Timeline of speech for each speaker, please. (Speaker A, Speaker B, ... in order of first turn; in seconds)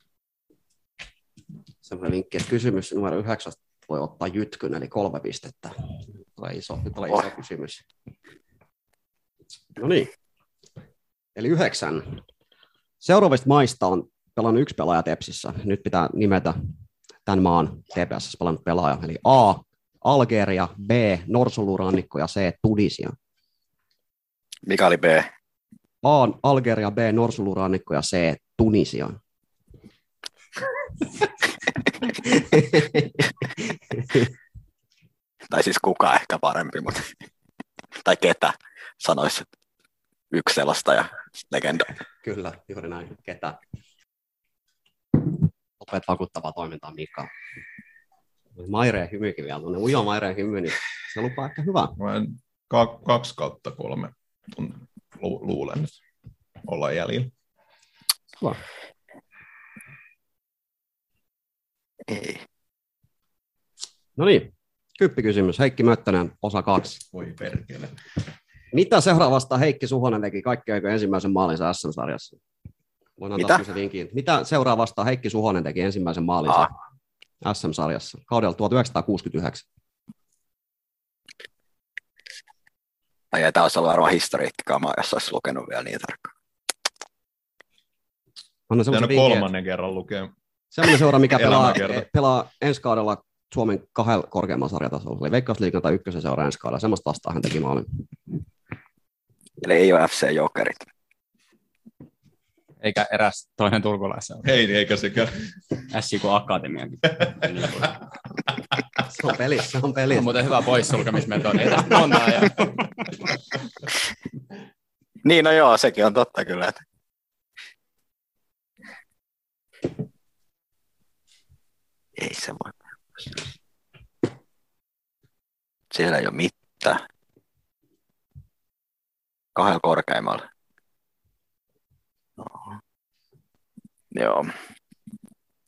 Speaker A: 1.8-5.8, 6.3-7.8, 9.8-10.1, 11.3-12.2, 13.0-16.6, 17.2-23.1, 26.0-29.2, 32.5-33.0, 42.2-43.6, 45.8-47.3, 48.5-52.0, 64.2-67.0, 68.7-72.4, 73.2-76.7, 77.4-79.6, 88.7-89.5, 90.7-98.0, 109.1-110.4
Speaker B: 24.6-25.3, 35.5-37.1, 38.0-39.5, 40.3-41.9, 62.1-62.4, 83.3-86.3, 99.6-100.8, 115.2-116.8, 122.2-122.7, 125.9-127.0, 129.5-130.4, 132.4-132.7, 134.1-134.5
Speaker C: 52.0-56.0, 56.6-57.3, 67.1-67.9, 88.9-90.3, 91.3-92.1, 104.4-105.5
Speaker D: 102.8-104.5, 110.1-112.7
Speaker E: 105.9-107.9